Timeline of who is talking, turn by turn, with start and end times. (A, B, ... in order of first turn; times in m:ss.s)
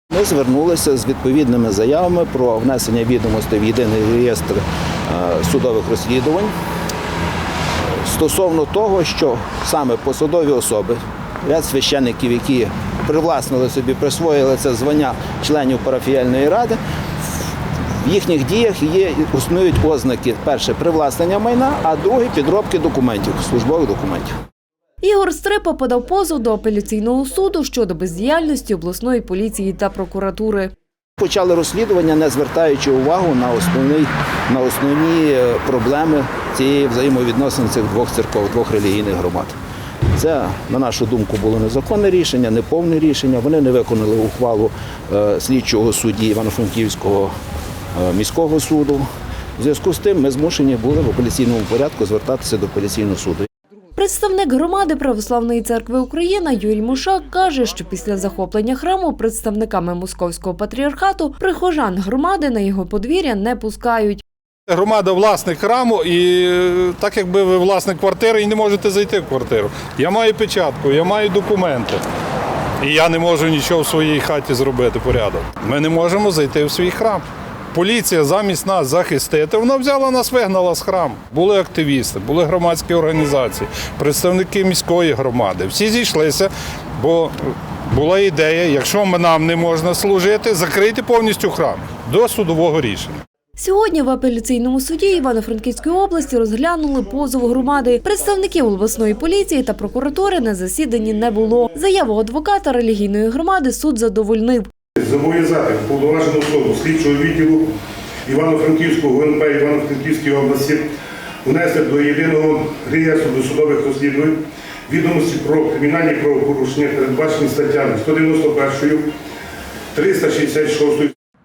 0:00.1-0:06.5 A
0:08.0-0:16.8 A
0:18.0-0:24.3 A
0:25.0-0:30.7 B
0:31.2-0:39.6 A
0:40.1-0:47.3 A
0:48.0-0:49.0 A
0:49.6-0:53.5 A
0:54.0-1:04.2 B
1:04.7-1:12.0 C
1:12.8-1:33.2 C
1:33.6-1:44.7 B
1:45.0-1:47.7 D
1:48.2-1:50.9 D
1:51.4-1:59.1 D
1:59.9-2:01.1 D